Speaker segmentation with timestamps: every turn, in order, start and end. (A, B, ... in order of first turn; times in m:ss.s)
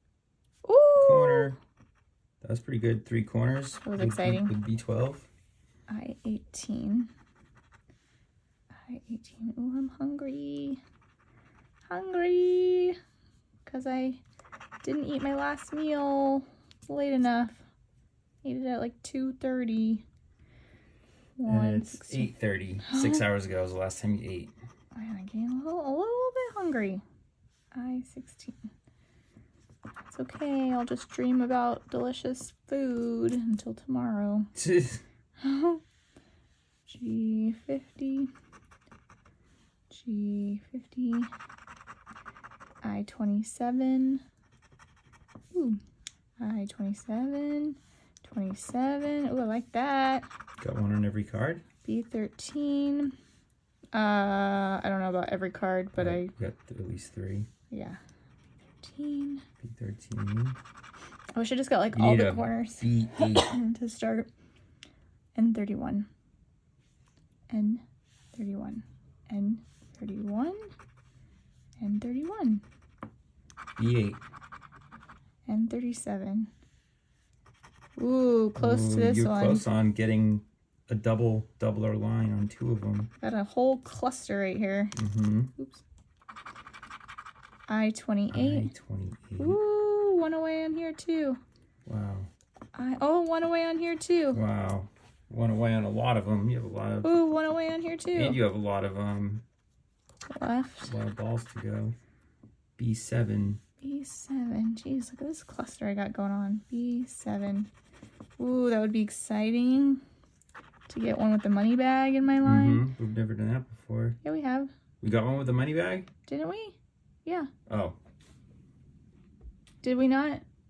0:00.6-0:01.5 A
0:01.0-0:01.6 B
0:02.4-0:05.3 B
0:03.8-0:04.5 A
0:05.9-0:07.1 A
0:08.8-0:10.8 A
0:11.9-0:13.0 A
0:13.7-0:14.2 A
0:14.8-0:17.6 A
0:18.4-0:20.0 A
0:21.4-0:22.3 A
0:21.5-0:24.6 B
0:22.8-0:23.2 A
0:24.9-0:27.0 A
0:27.7-0:28.6 A
0:30.1-0:34.5 A
0:34.6-0:35.0 B
0:35.4-0:35.8 A
0:36.9-0:38.3 A
0:39.9-0:41.3 A
0:42.8-0:44.2 A
0:45.5-0:45.8 A
0:46.4-0:50.3 A
0:50.6-0:51.6 B
0:51.8-0:53.2 A
0:53.9-0:56.3 A
0:56.0-0:57.5 B
0:57.7-0:58.0 A
0:58.8-0:59.4 A
0:59.6-1:00.6 B
1:01.4-1:04.3 A
1:01.9-1:03.6 B
1:05.4-1:06.1 A
1:07.5-1:07.8 A
1:08.3-1:10.7 A
1:11.8-1:12.6 A
1:13.8-1:14.2 B
1:15.5-1:16.5 A
1:18.0-1:19.7 A
1:18.6-1:23.1 B
1:23.2-1:24.9 A
1:25.0-1:25.5 B
1:25.6-1:25.8 A
1:27.7-1:28.7 A
1:28.3-1:29.6 B
1:29.4-1:31.4 A
1:31.9-1:32.3 B
1:32.8-1:34.4 A
1:34.3-1:37.2 B
1:37.0-1:38.4 A
1:38.1-1:39.4 B
1:40.3-1:40.9 A
1:40.9-1:42.0 B
1:42.8-1:43.6 B
1:43.8-1:47.7 A
1:48.4-1:50.0 A
1:50.9-1:52.9 A
1:52.4-1:54.2 B
1:54.2-1:54.7 A
1:55.0-1:56.1 B
1:56.3-1:57.5 A
1:57.7-1:58.0 B
1:59.8-2:00.4 A